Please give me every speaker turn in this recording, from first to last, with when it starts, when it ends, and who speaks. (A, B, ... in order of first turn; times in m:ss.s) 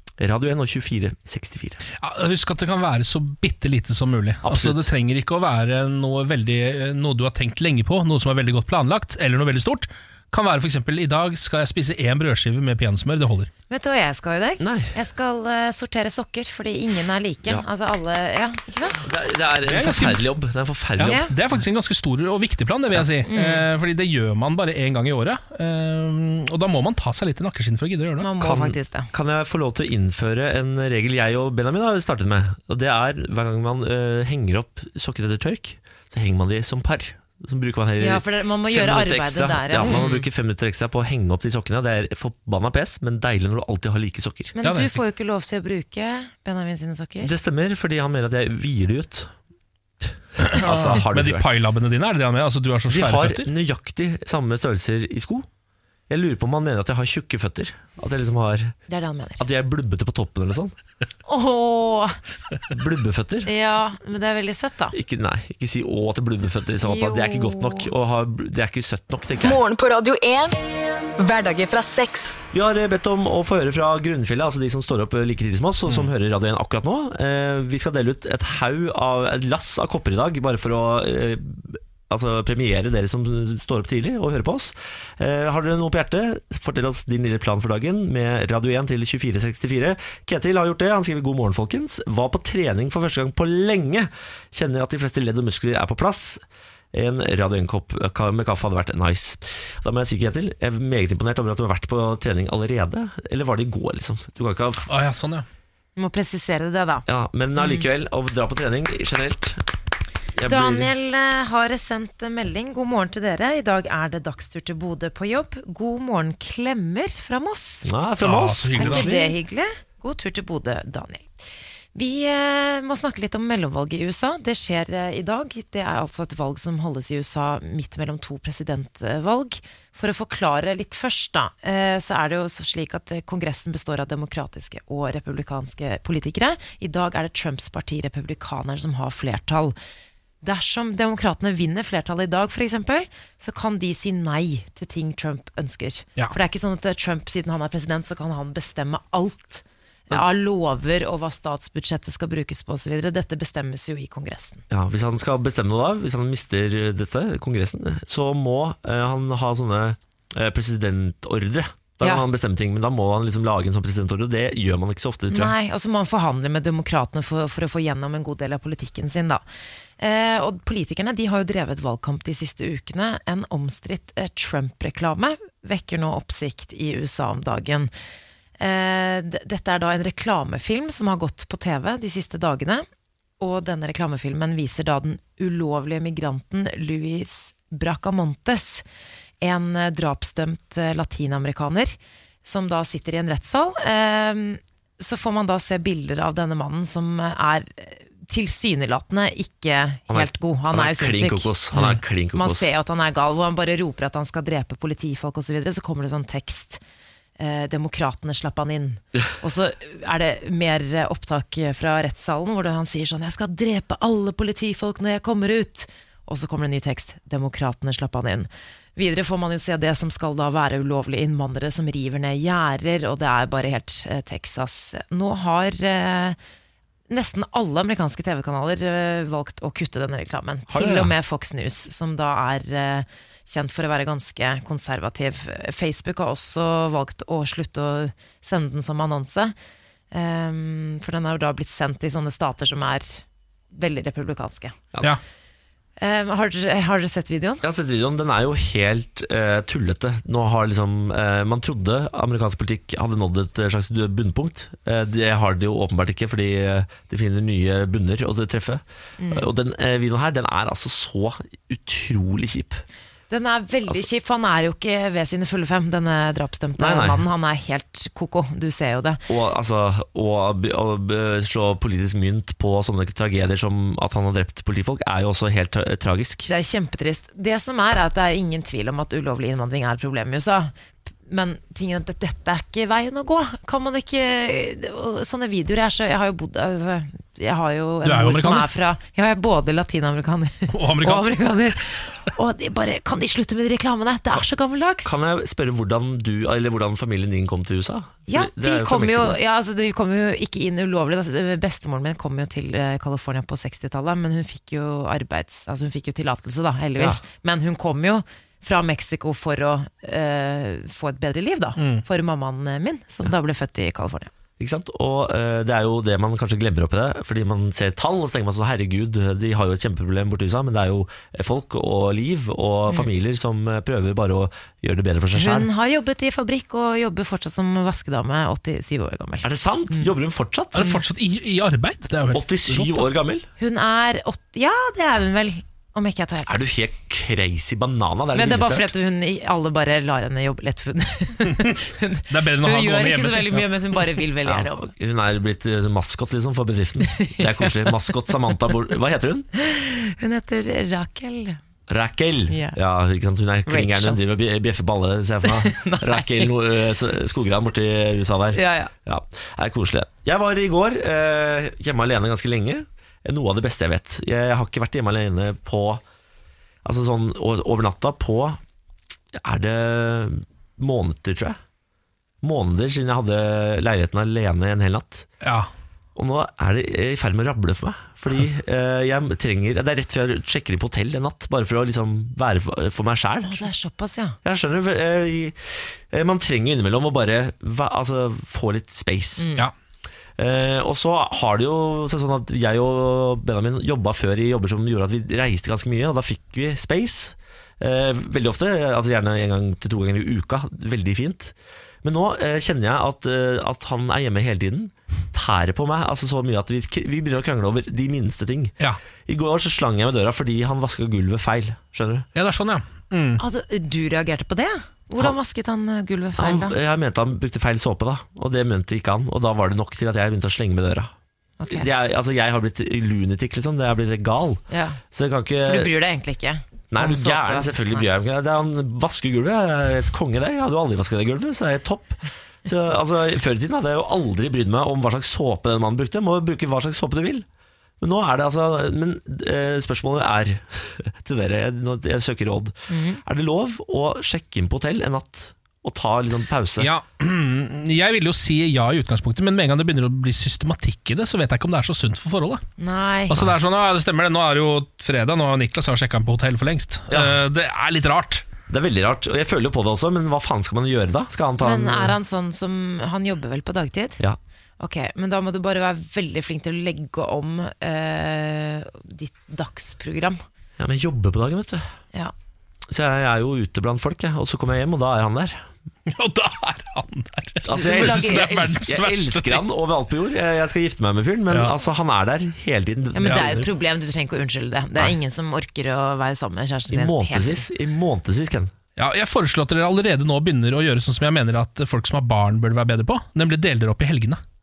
0:00.2-0:01.8 A
0:02.0-0:13.5 B
0:04.4-0:04.8 A
0:13.7-0:19.0 C
0:14.6-0:14.9 A
0:19.0-0:21.2 A
0:19.7-0:20.3 B
0:21.0-0:28.3 B
0:21.0-0:21.3 C
0:23.2-0:23.7 C
0:28.2-0:29.1 C
0:28.4-0:44.5 A
0:38.0-0:40.3 C
0:44.5-0:47.3 C
0:44.6-0:45.0 B
0:47.2-0:49.3 A
0:50.4-0:53.5 B
0:50.4-0:51.4 A
0:52.9-0:55.5 A
0:56.1-0:58.7 A
0:58.9-0:59.4 C
0:59.4-1:00.7 A
1:01.2-1:02.2 C
1:02.7-1:03.5 A
1:03.4-1:05.0 C
1:04.9-1:09.6 A
1:06.8-1:07.9 C
1:09.4-1:10.6 D
1:11.2-1:12.4 D
1:12.5-1:36.4 A
1:36.9-1:44.9 A
1:44.9-1:45.4 B
1:46.0-1:47.0 C
1:47.0-1:49.6 A
1:47.6-1:47.8 C
1:50.3-1:50.9 A
1:50.4-1:57.9 C
1:57.8-1:59.3 A
1:58.2-1:59.1 B
1:58.8-2:01.3 C
2:01.9-2:19.8 C
2:20.4-2:34.6 C
2:34.7-2:45.5 A
2:45.3-2:49.4 C
2:50.0-2:57.9 C
2:58.6-3:02.8 C
3:03.4-3:08.8 C
3:09.4-3:21.5 C
3:20.1-3:22.7 A
3:21.7-3:22.0 B
3:22.3-3:26.8 C
3:27.4-3:46.4 C
3:47.1-3:59.5 C
3:50.7-3:51.1 A
4:00.1-4:04.8 C
4:06.0-4:07.6 C
4:07.6-4:22.8 A
4:19.2-4:19.5 C
4:23.3-4:29.2 C
4:26.8-4:27.2 A
4:29.3-4:36.5 A
4:36.5-4:40.7 C
4:41.2-4:55.2 C
4:48.0-4:48.7 B
4:50.7-4:51.4 B
4:55.0-4:59.4 A
4:58.3-5:14.3 C
5:11.8-5:12.0 B
5:14.6-5:25.7 A
5:25.3-5:30.1 C
5:29.4-5:30.9 A
5:30.7-5:33.1 B
5:32.3-5:33.5 A
5:33.6-5:36.6 C
5:36.5-5:38.9 A
5:38.3-5:44.9 C
5:42.3-5:44.0 B
5:44.4-5:49.5 A
5:47.1-5:47.9 C
5:49.6-5:51.6 C
5:51.9-6:06.0 A
5:52.5-5:52.8 C
5:53.7-5:54.2 C
5:55.5-5:56.6 C
5:58.5-5:58.9 C
6:06.8-6:08.6 A
6:09.3-6:11.6 A
6:12.4-6:15.3 A
6:15.4-6:15.7 B
6:16.2-6:23.7 A
6:23.4-6:24.4 C
6:24.4-6:29.4 A
6:29.4-6:29.7 C
6:30.4-6:48.7 A
6:49.3-6:52.2 A
6:52.3-6:53.4 B
6:53.4-6:56.8 C
6:56.4-7:01.1 A
7:01.6-7:01.9 C
7:01.7-7:05.9 A
7:04.7-7:05.0 C
7:05.6-7:08.1 C
7:06.9-7:17.4 A
7:18.0-7:26.9 A
7:22.9-7:23.2 C
7:26.8-7:32.6 B
7:32.8-7:33.4 C
7:33.3-7:38.4 B
7:37.1-7:37.4 A
7:38.7-7:42.2 A
7:41.6-7:44.2 C
7:44.8-7:50.4 C
7:50.8-7:51.8 A
7:52.9-7:55.6 A
7:56.1-7:59.6 B
7:57.6-8:03.7 A
7:57.7-7:58.5 C
8:03.1-8:07.7 C
8:06.9-8:08.7 A
8:09.0-8:14.4 B